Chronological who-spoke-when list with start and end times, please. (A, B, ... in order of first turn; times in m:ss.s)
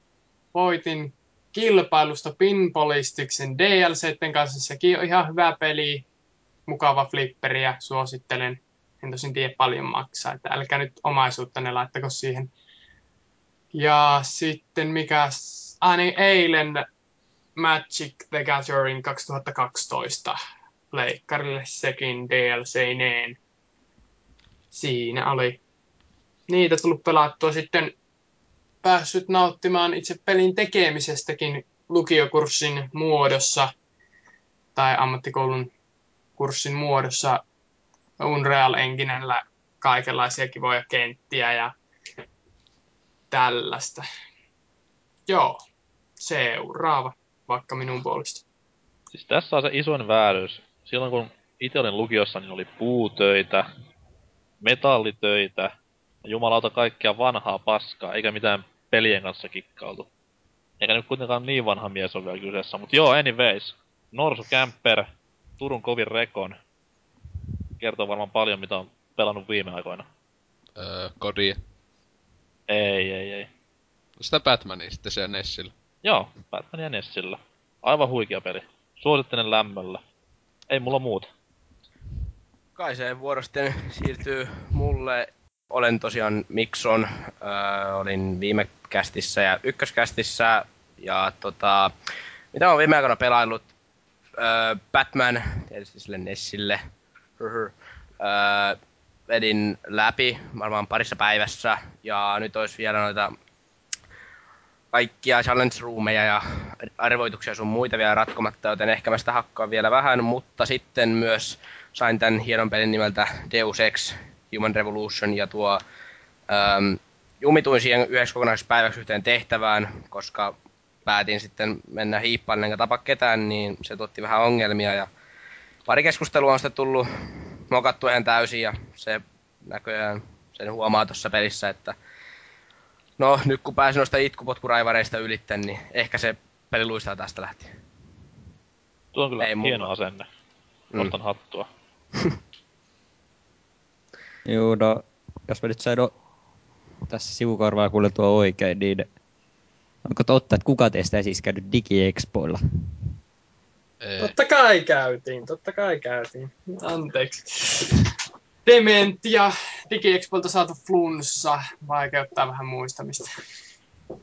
0:00.5-0:06.0 A
0:06.7-0:12.5 A
0:13.7-0:16.8 A
0:17.6-0:20.4 A
0:20.9-0:23.4 A
0:24.7-0:25.6 A
0:26.5-0:27.9 A
0:28.8-0:33.7 A
0:34.8-0:35.7 A
0:36.4-0:37.4 A
0:38.2-0:41.7 A
0:43.3-0:44.1 A
0:45.3-0:45.6 A
0:46.2-0:48.4 A
0:49.1-0:53.7 B
0:54.6-0:55.7 B
0:56.2-1:00.1 B
1:00.8-1:06.6 B
1:07.8-1:10.1 B
1:10.8-1:11.6 C
1:12.7-1:13.5 B
1:14.2-1:15.7 C
1:16.0-1:20.0 B
1:20.7-1:21.3 B
1:22.8-1:31.9 D
1:32.5-1:33.7 D
1:34.4-1:36.8 D
1:37.4-1:38.8 D
1:39.3-1:43.3 D
1:44.9-1:55.8 D
1:56.5-2:00.6 D
2:01.1-2:05.1 D
2:05.9-2:07.1 D
2:07.7-2:12.0 D
2:13.2-2:17.7 D
2:19.2-2:20.3 B
2:19.4-2:19.9 D
2:21.0-2:21.7 B
2:24.4-2:26.1 E
2:27.1-2:29.1 E
2:30.0-2:32.6 E
2:34.0-2:34.3 C
2:34.2-2:38.1 A
2:38.7-2:43.3 A